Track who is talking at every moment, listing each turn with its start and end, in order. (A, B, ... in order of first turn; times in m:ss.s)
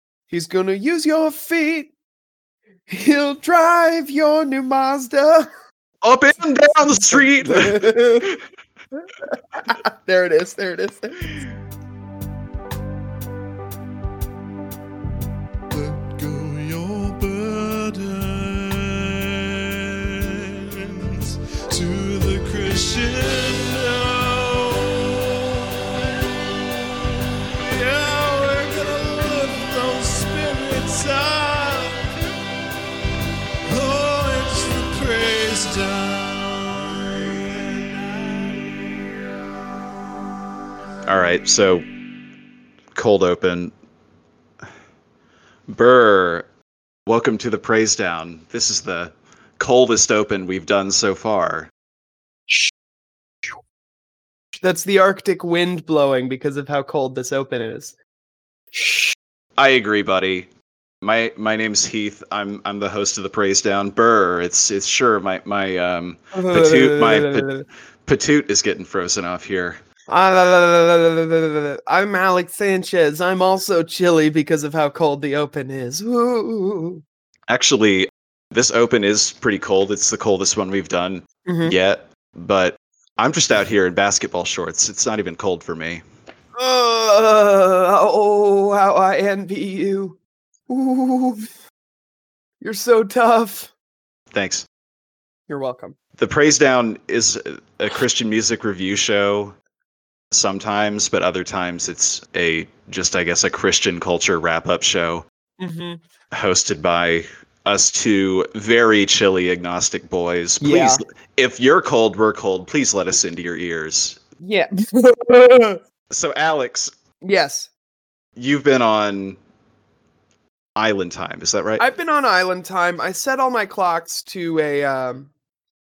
0:00.3-0:01.9 A
0:02.9-0:05.5 A
0:06.0-0:08.4 B
0:06.8-0:08.3 A
0:09.6-0:11.3 A
0:15.7-0:25.8 C
0:27.6-0:32.0 C
0:33.7-0:38.5 C
0:41.0-0:41.8 B
0:42.9-0:43.7 B
0:45.7-0:46.4 B
0:47.0-0:51.7 B
0:54.6-0:57.9 A
0:58.7-0:59.1 A
0:59.6-1:00.5 B
1:01.0-1:07.5 B
1:06.3-1:07.6 A
1:08.0-1:09.8 B
1:10.1-1:17.0 A
1:17.5-1:26.0 B
1:21.4-1:21.8 A
1:26.6-1:30.2 A
1:30.7-1:31.5 A
1:32.6-1:33.7 A
1:34.3-1:34.6 B
1:35.5-1:35.9 A
1:36.2-1:39.5 B
1:40.3-1:45.2 B
1:45.6-1:46.0 A
1:46.3-1:54.2 B
1:50.6-1:51.0 A
1:54.4-1:55.8 A
1:56.1-1:56.9 B
1:57.2-1:57.7 A
1:58.4-1:59.4 B
2:00.8-2:01.8 B
2:01.8-2:05.3 A